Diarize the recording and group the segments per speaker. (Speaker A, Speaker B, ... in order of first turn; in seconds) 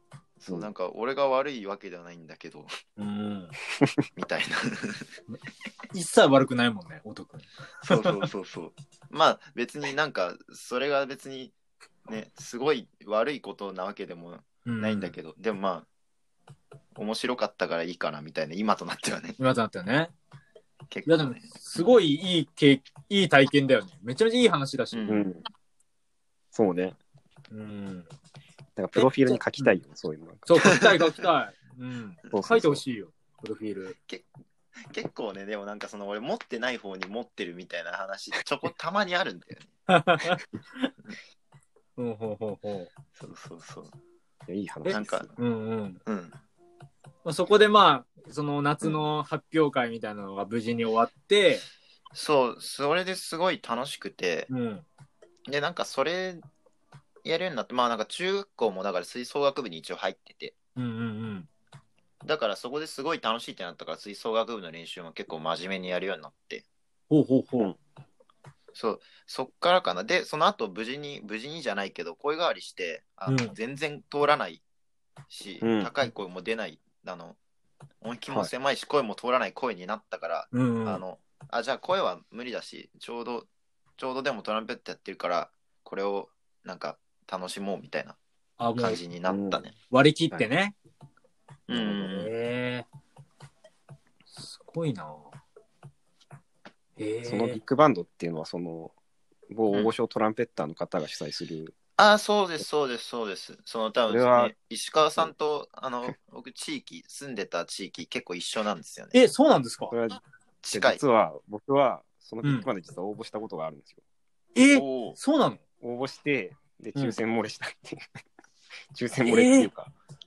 Speaker A: 0.4-2.7, 4.2-5.1, 7.8-11.5, 12.1-15.8, 16.9-19.4, 20.9-21.8, 24.9-25.3, 30.6-31.2, 34.9-39.7, 43.1-43.9, 44.9-45.3, 46.0-46.4, 52.1-54.5, 55.5-56.4, 57.2-60.5, 62.2-66.7, 68.7-74.6, 75.3-77.4, 78.0-88.2, 88.8-89.7, 91.7-92.3, 102.0-109.2, 110.6-111.0, 114.7-115.2
Speaker B: 3.0-3.5, 5.9-8.1, 14.7-15.1, 19.4-20.1, 21.1-25.2, 27.5-28.1, 28.9-29.8, 30.4-34.0, 39.9-40.9, 42.0-42.9, 44.8-46.0, 47.2-51.6, 54.5-54.8, 60.8-61.5, 67.1-67.7, 73.2-73.5, 80.5-81.0, 88.6-89.0, 89.9-90.8, 92.0-92.8, 94.3-95.3, 97.0-97.6, 109.1-109.9, 112.4-112.7, 114.5-115.6, 119.2-119.7
Speaker C: 25.1-25.4, 26.5-27.0, 28.8-30.4, 32.3-32.8, 44.5-45.3, 75.6-75.9, 89.2-89.7, 91.7-92.0, 97.2-98.9, 99.5-101.8, 104.1-104.5, 109.9-114.0, 115.8-118.0, 118.9-119.9